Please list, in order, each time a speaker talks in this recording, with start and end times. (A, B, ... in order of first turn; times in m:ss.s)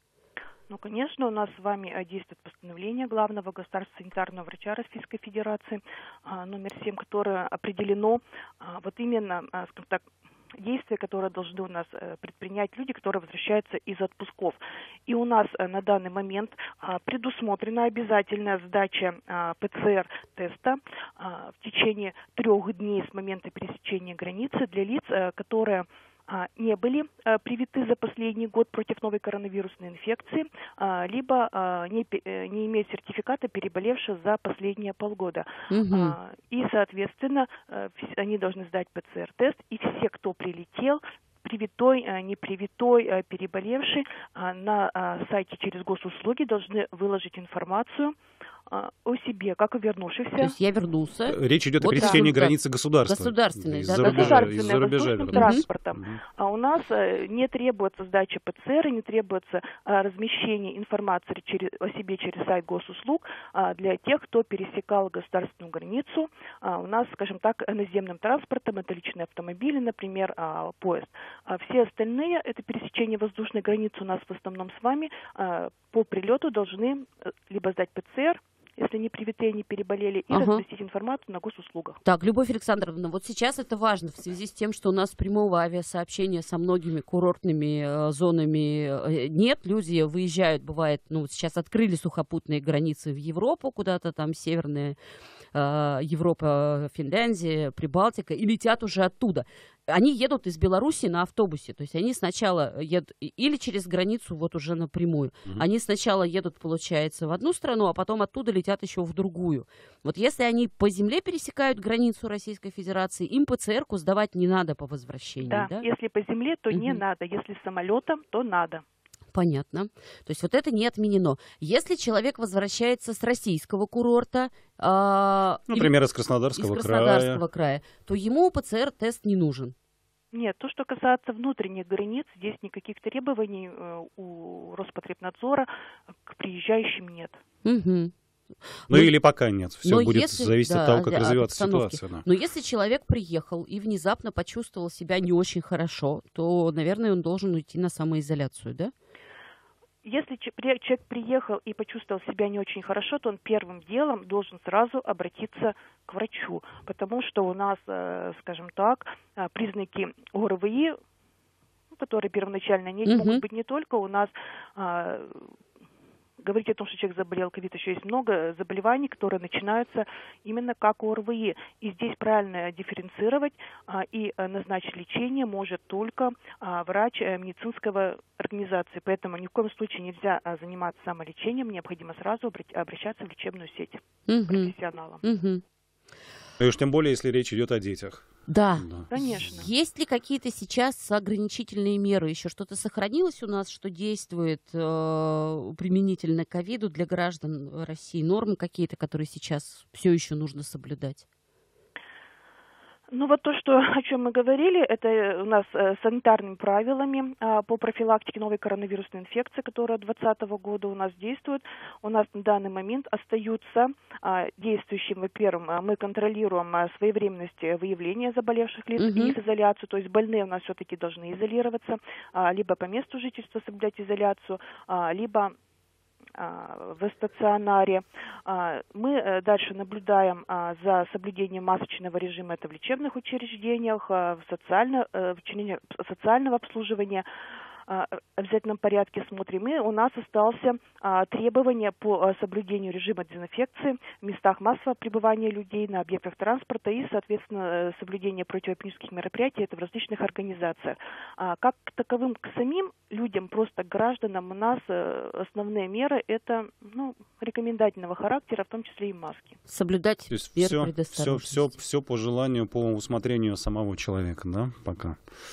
0:00.7-0:48.1 A
0:35.7-0:36.2 B
0:48.7-0:50.5 A
0:50.4-0:54.6 B
0:51.3-0:56.2 C
0:52.0-0:52.2 A
0:54.0-1:22.0 A
0:55.3-0:55.6 B
1:20.3-1:20.6 B
1:22.0-1:35.0 B
1:35.5-1:55.8 B
1:55.5-1:58.8 A
1:56.7-1:57.0 B
1:59.3-2:05.9 B
2:05.7-2:07.4 C
2:06.6-2:09.7 B
2:10.3-2:15.7 A
2:16.2-2:17.4 A
2:17.6-2:18.1 B
2:18.7-2:19.1 B
2:18.9-2:22.2 C
2:19.8-2:28.9 B
2:30.0-2:41.0 A
2:41.9-2:45.5 A
2:43.0-2:43.4 B
2:46.4-3:05.2 A
3:04.3-3:04.7 B
3:05.2-3:05.6 B
3:06.6-3:09.5 C
3:08.5-3:21.2 B
3:09.1-3:09.7 A
3:23.1-3:45.5 A
3:39.0-3:39.3 B
3:46.4-3:57.2 A
3:57.9-4:19.6 A
4:19.7-4:21.7 B
4:20.3-4:25.2 C